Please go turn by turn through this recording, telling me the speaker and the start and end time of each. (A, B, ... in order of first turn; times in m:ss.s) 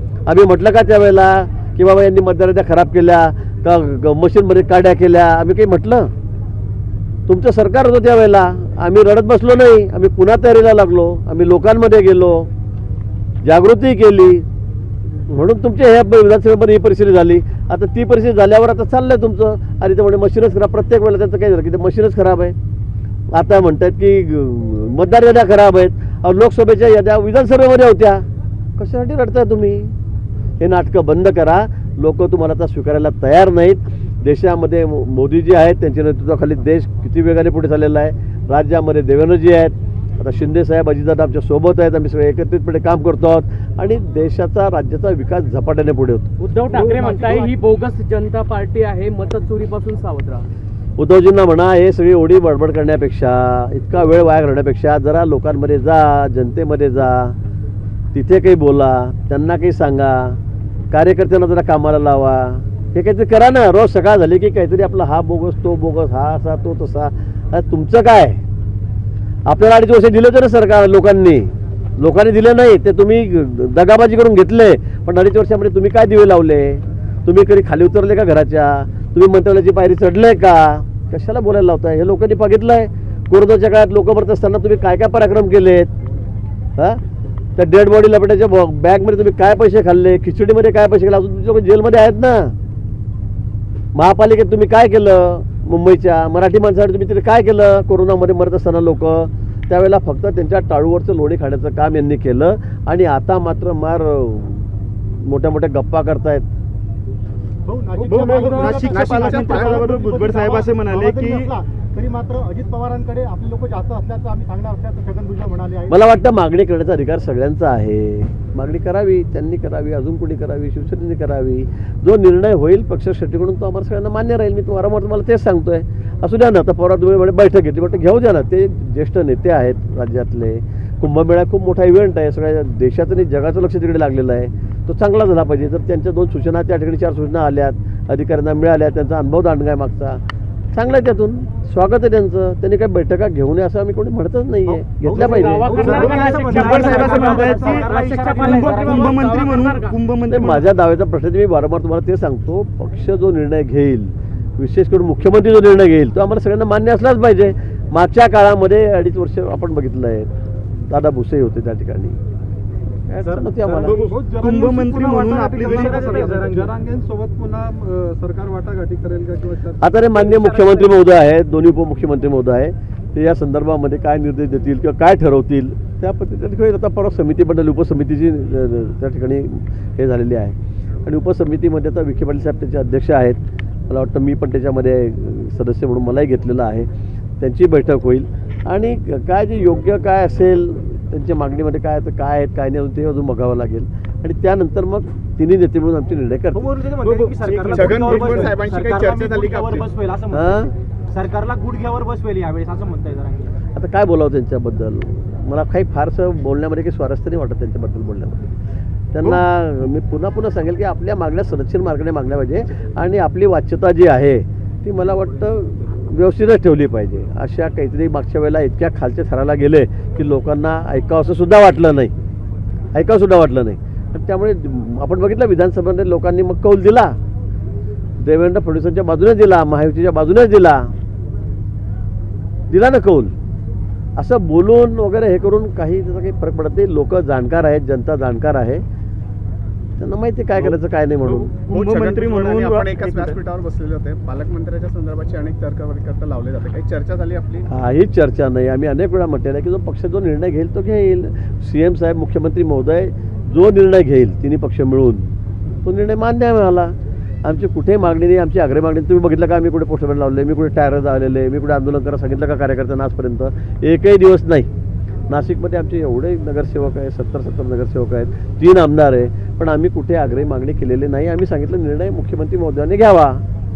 0:00.3-0:06.1 A
0:07.3-0:12.5 A
0:13.4-0:14.4 A
0:15.3-0:22.5 A
0:23.3-0:28.2 A
0:28.8-0:29.9 A
0:30.6-0:46.3 A
0:46.4-0:50.4 B
0:46.9-0:47.5 C
0:51.0-0:57.4 A
0:58.1-1:00.4 A
1:00.9-1:08.4 A
1:09.4-1:25.9 A
1:27.6-1:32.5 A
1:33.9-1:46.5 A
1:47.6-1:56.1 C
1:48.0-1:51.5 D
1:48.6-1:49.9 E
1:55.9-2:20.2 A
2:20.7-2:26.2 A
2:24.7-2:29.3 F
2:25.0-2:30.0 B
2:25.8-2:30.7 D
2:26.4-2:26.7 C
2:30.3-2:40.3 A
2:40.9-2:42.2 A
2:43.1-2:44.0 A
2:43.2-2:44.0 F
2:43.8-2:46.6 D
2:44.0-2:49.8 C
2:45.7-2:46.7 F
2:49.8-3:06.9 A
2:50.1-2:51.0 F
3:07.4-3:16.7 A
3:16.5-3:23.6 F
3:17.0-3:19.9 E
3:20.3-3:20.7 A
3:23.7-3:28.5 A
3:29.1-3:42.1 A
3:42.9-3:47.2 A
3:48.2-3:50.9 A
3:52.7-3:53.3 A
3:54.2-3:58.8 A
4:00.0-4:01.5 A
4:00.6-4:03.4 D
4:01.7-4:07.7 E
4:07.7-4:24.7 A
4:25.3-4:33.4 A